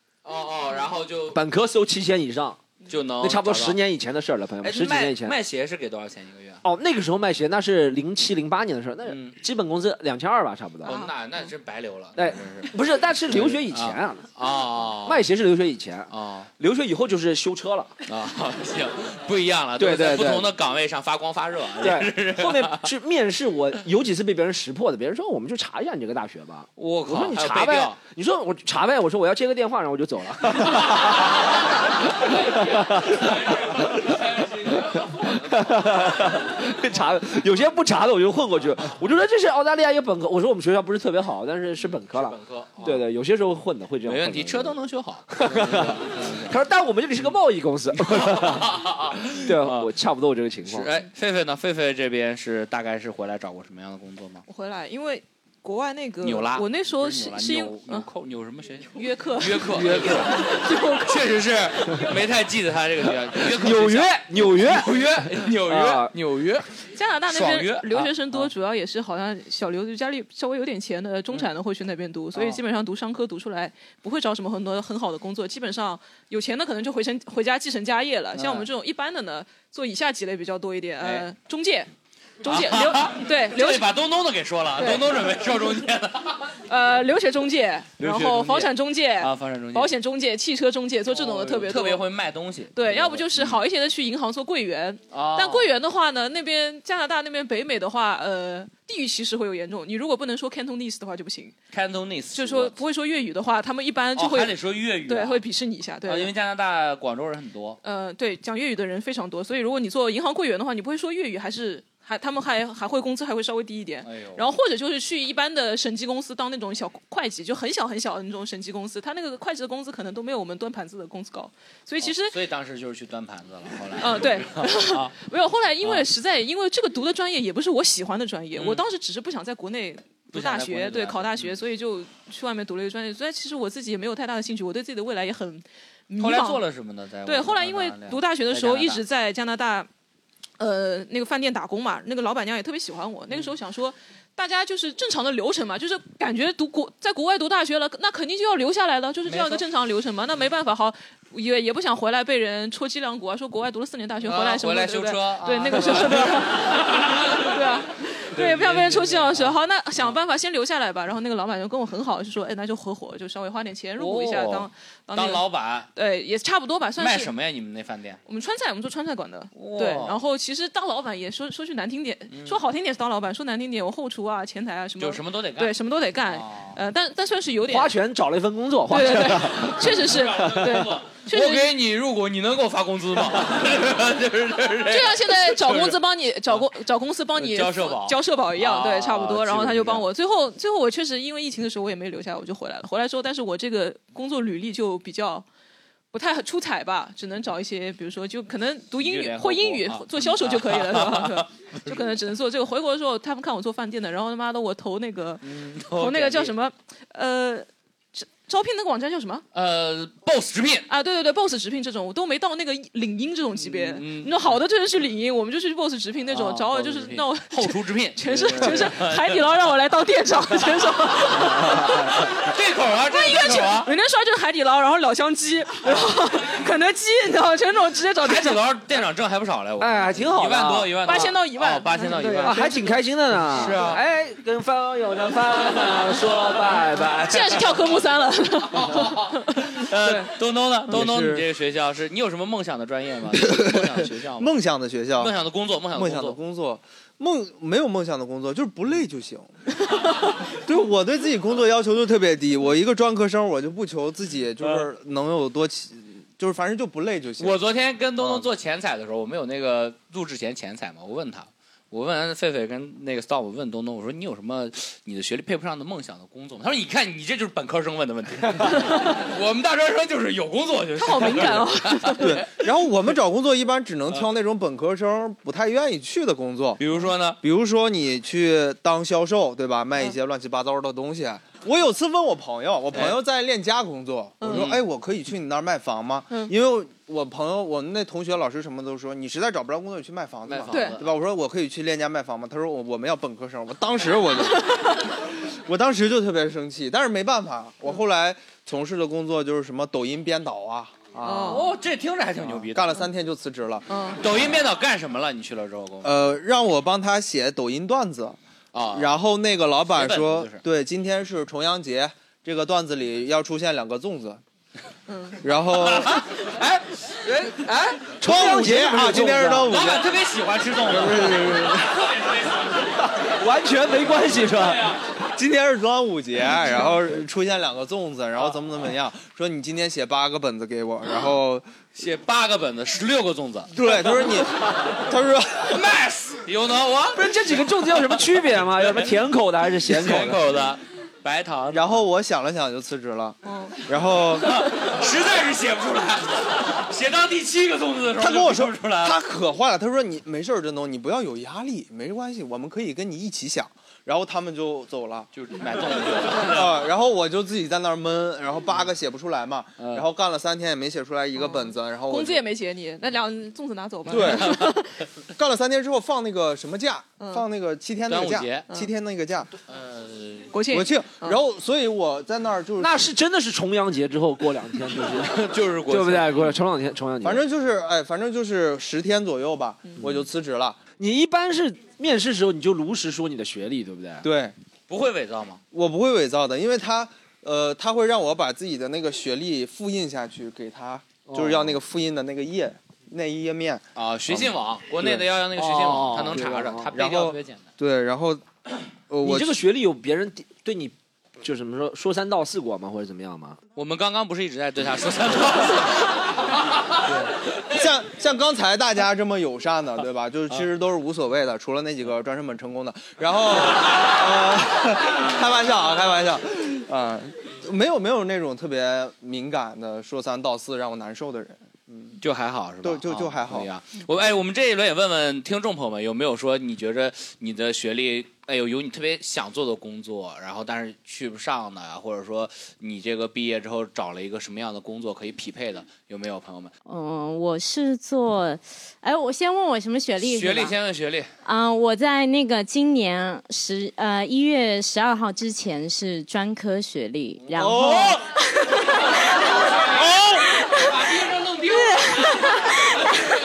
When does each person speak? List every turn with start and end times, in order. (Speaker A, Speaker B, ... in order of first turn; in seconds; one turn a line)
Speaker A: 0.2-1.4
Speaker B: 1.3-2.6
Speaker A: 2.9-3.8
Speaker B: 3.2-5.3
Speaker A: 4.6-6.6
Speaker B: 6.6-11.0
Speaker A: 9.1-9.3
Speaker A: 10.8-12.8
Speaker C: 10.8-11.1
Speaker B: 12.2-14.3
Speaker A: 13.3-15.2
Speaker B: 15.1-17.9
Speaker A: 16.1-16.5
Speaker A: 18.1-22.9
Speaker B: 19.8-20.5
Speaker B: 21.8-31.5
Speaker A: 26.8-28.0
Speaker B: 32.2-34.0
Speaker A: 32.5-32.8
Speaker A: 34.1-35.6
Speaker B: 34.7-44.8
Speaker A: 42.1-43.0
Speaker A: 44.1-46.5
Speaker B: 45.3-50.9
Speaker A: 48.1-49.9
Speaker A: 50.7-54.5
Speaker C: 54.5-58.1
Speaker A: 56.2-66.7
Speaker C: 58.9-61.2
Speaker B: 59.8-60.3
Speaker B: 63.5-66.1
Speaker C: 67.0-81.9
Speaker A: 67.3-68.5
Speaker A: 72.3-72.6
Speaker A: 78.3-78.7
Speaker A: 81.0-81.3
Speaker C: 82.4-83.9
Speaker A: 82.5-86.5
Speaker C: 84.8-85.1
Speaker C: 86.7-92.0
Speaker A: 88.0-89.9
Speaker A: 91.1-93.6
Speaker C: 92.8-101.6
Speaker A: 95.1-95.7
Speaker A: 101.7-102.8
Speaker C: 102.3-106.3
Speaker A: 104.2-105.4
Speaker A: 106.0-107.8
Speaker C: 107.8-122.4
Speaker A: 114.0-114.5
Speaker A: 122.0-125.1
Speaker C: 124.0-136.6
Speaker A: 125.8-126.1
Speaker A: 128.5-128.8
Speaker A: 130.3-131.6
Speaker A: 136.2-139.0
Speaker C: 137.2-139.9
Speaker C: 140.6-167.3
Speaker A: 149.3-149.6
Speaker A: 154.2-157.5
Speaker A: 158.3-159.5
Speaker A: 164.0-165.9
Speaker A: 167.0-168.2
Speaker C: 168.3-177.9
Speaker A: 169.5-170.2
Speaker A: 172.3-172.6
Speaker A: 175.0-176.8
Speaker B: 177.7-180.5
Speaker C: 178.9-181.7
Speaker A: 179.8-186.7
Speaker C: 184.9-195.4
Speaker A: 187.3-190.1
Speaker C: 196.1-209.4
Speaker A: 198.9-202.0
Speaker A: 205.4-206.5
Speaker A: 209.5-210.9
Speaker C: 210.9-222.3
Speaker A: 213.6-214.3
Speaker A: 216.3-219.5
Speaker A: 221.5-223.9
Speaker C: 223.1-228.6
Speaker A: 228.2-232.6
Speaker B: 229.8-230.9
Speaker C: 231.0-233.0
Speaker B: 232.4-237.6
Speaker A: 233.5-234.0
Speaker C: 237.2-240.3
Speaker A: 238.8-244.5
Speaker D: 240.9-241.4
Speaker D: 243.3-245.3
Speaker A: 245.2-246.4
Speaker D: 245.9-249.6
Speaker D: 250.6-257.6
Speaker A: 257.4-272.4
Speaker D: 258.2-258.5
Speaker C: 268.7-269.2
Speaker C: 271.0-272.4
Speaker D: 272.2-276.8
Speaker A: 276.8-277.4
Speaker D: 277.4-301.7
Speaker C: 284.4-284.7
Speaker A: 284.5-284.8
Speaker A: 290.5-291.1
Speaker C: 290.7-291.0
Speaker C: 301.2-301.7
Speaker A: 301.4-302.9
Speaker D: 302.4-304.0
Speaker C: 303.9-304.2
Speaker A: 304.2-306.1
Speaker D: 306.0-308.4
Speaker A: 308.7-309.1
Speaker D: 308.9-314.4
Speaker A: 309.9-310.6
Speaker C: 315.1-315.4
Speaker D: 315.4-316.3
Speaker A: 315.8-317.6
Speaker B: 317.6-319.7
Speaker D: 318.2-320.1
Speaker A: 319.7-321.8
Speaker D: 320.8-322.0
Speaker B: 323.0-324.9
Speaker D: 325.4-331.6
Speaker A: 332.0-333.7
Speaker D: 333.7-335.9
Speaker A: 335.7-337.2
Speaker B: 337.1-340.4
Speaker A: 338.8-339.1
Speaker A: 339.9-342.0
Speaker D: 341.7-344.6
Speaker C: 343.5-343.8
Speaker A: 344.5-349.2
Speaker D: 348.2-355.3
Speaker A: 355.3-356.8
Speaker D: 356.3-362.4
Speaker A: 359.8-360.1
Speaker C: 361.4-364.9
Speaker A: 364.1-364.7
Speaker D: 364.1-364.8
Speaker D: 365.4-369.5
Speaker C: 367.2-367.4
Speaker A: 368.1-368.7
Speaker A: 369.7-370.5
Speaker C: 370.5-371.4
Speaker D: 370.7-373.1
Speaker B: 372.8-377.4
Speaker A: 375.3-376.5
Speaker D: 377.2-380.8
Speaker B: 381.0-384.2
Speaker D: 384.2-384.5
Speaker A: 384.9-385.6
Speaker D: 385.7-394.5
Speaker B: 391.3-391.8
Speaker A: 394.0-397.6
Speaker B: 395.1-396.9
Speaker D: 396.9-398.4
Speaker D: 399.1-399.5
Speaker B: 399.2-403.6
Speaker A: 403.8-406.1
Speaker D: 407.1-422.2
Speaker A: 422.2-436.7
Speaker D: 422.8-423.7
Speaker E: 436.9-440.8
Speaker A: 440.2-441.3
Speaker E: 441.4-448.2
Speaker D: 447.5-448.2
Speaker D: 449.9-450.6
Speaker A: 450.8-452.4
Speaker E: 451.7-453.1